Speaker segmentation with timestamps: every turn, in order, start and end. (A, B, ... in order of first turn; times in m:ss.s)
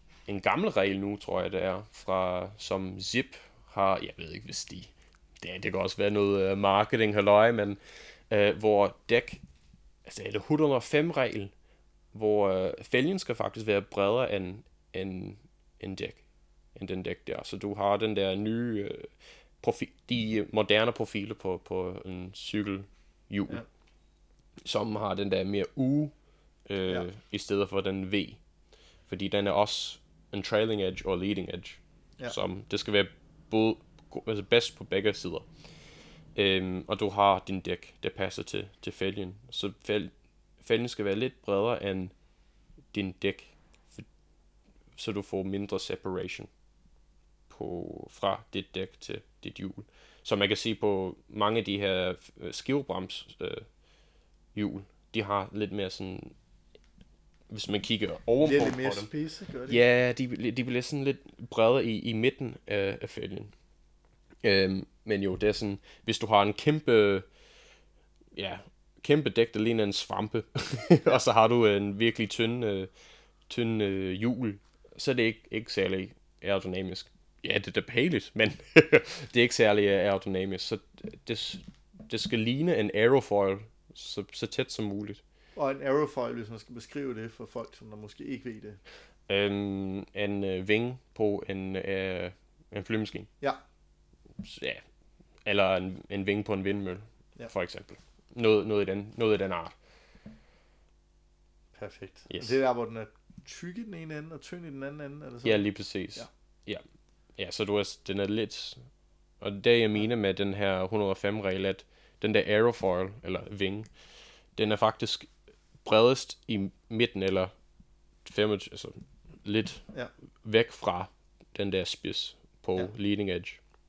0:00.3-0:09.4 A
0:10.0-0:11.5 A
0:12.1-0:16.2 A
0:16.8-0:23.6 A
0:24.6-0:26.1 A
0:26.7-0:28.4 A
0:29.1-0:35.5 A
0:36.4-0:42.1 A
0:42.9-0:44.1 A
0:45.0-0:46.5 A
0:47.5-0:53.7 A
0:54.5-0:56.4 A
0:57.5-0:59.1 A
0:58.4-0:59.8 B
0:59.7-1:03.5 A
1:04.4-1:07.3 A
1:08.3-1:12.9 A
1:13.5-1:25.2 A
1:25.6-1:28.8 B
1:29.3-1:33.3 A
1:34.4-1:34.8 A
1:35.4-1:39.8 A
1:41.8-1:45.6 B
1:42.3-1:42.6 A
1:45.4-1:46.8 A
1:47.4-1:48.8 A
1:49.4-1:53.9 A
1:54.6-1:55.3 A
1:55.8-1:57.5 A
1:58.2-1:59.8 A
2:00.4-2:03.6 A